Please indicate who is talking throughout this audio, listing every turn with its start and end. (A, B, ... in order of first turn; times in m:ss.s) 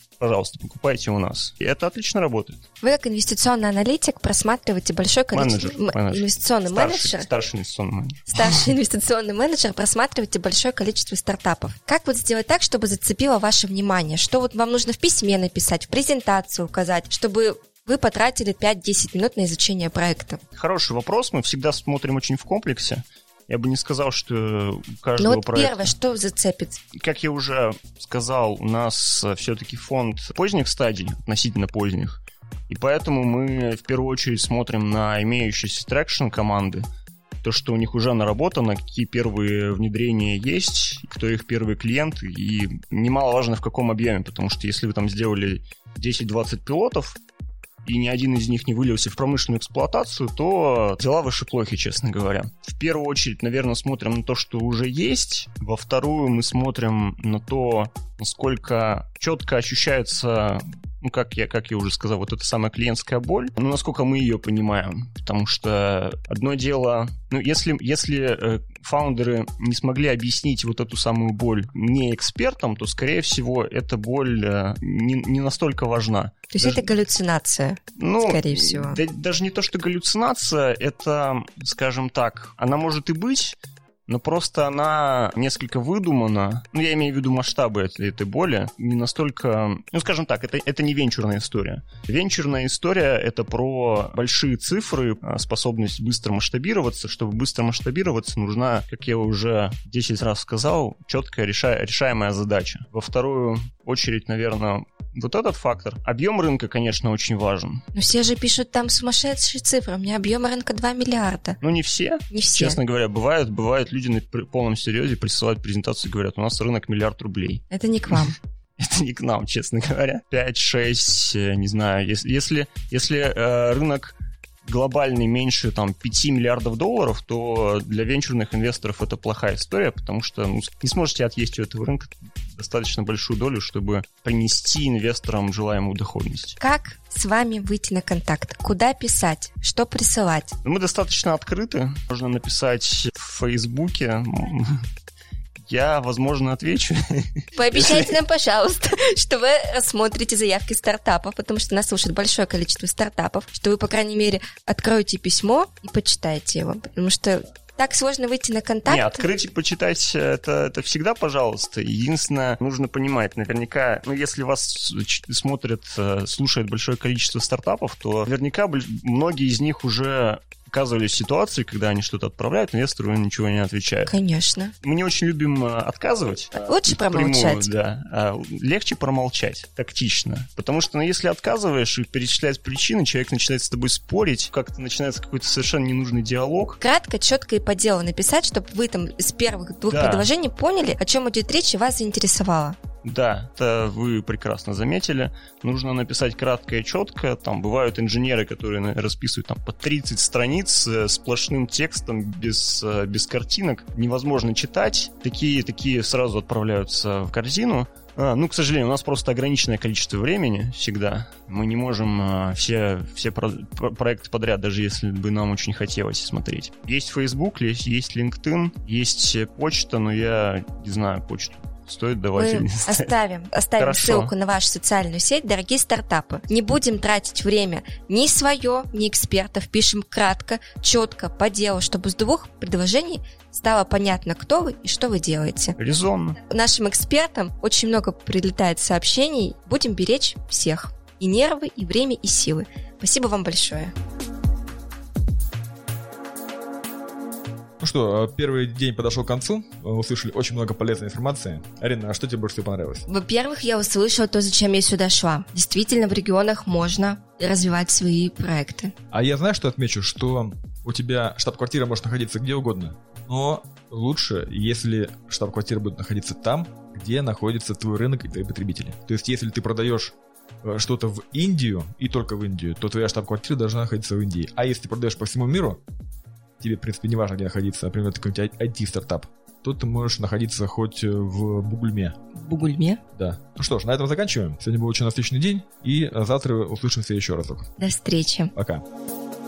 0:00.2-0:02.6 A
0:02.8-0:07.3 B
0:05.3-0:08.7 A
0:08.3-0:20.4 B
0:20.5-0:25.9 A
0:25.2-0:26.8 B
0:26.9-0:36.8 A
0:37.4-0:47.2 A
0:47.8-1:16.8 A
1:16.5-1:19.0 B
1:18.0-1:47.8 A
1:47.9-1:51.6 B
1:51.6-1:58.2 A
1:52.3-1:52.8 B
1:57.7-1:58.4 B
1:58.8-2:16.6 A
2:16.6-2:20.6 B
2:20.6-2:24.8 A
2:25.6-2:28.1 A
2:27.5-2:39.3 B
2:38.9-2:54.1 A
2:54.1-2:54.7 B
2:54.8-3:06.8 A
2:56.6-2:57.7 B
3:06.8-3:12.8 B
3:09.9-3:10.3 A
3:13.0-3:43.1 A
3:42.4-3:55.8 B
3:43.8-3:44.3 A
3:55.8-3:56.4 A
3:56.4-4:03.9 B
4:07.8-4:13.0 C
4:13.1-4:18.9 B
4:19.1-4:35.8 C
4:36.6-4:42.2 C
4:42.3-4:43.0 B
4:43.1-4:47.7 C
4:47.8-4:48.5 B
4:48.5-4:48.8 C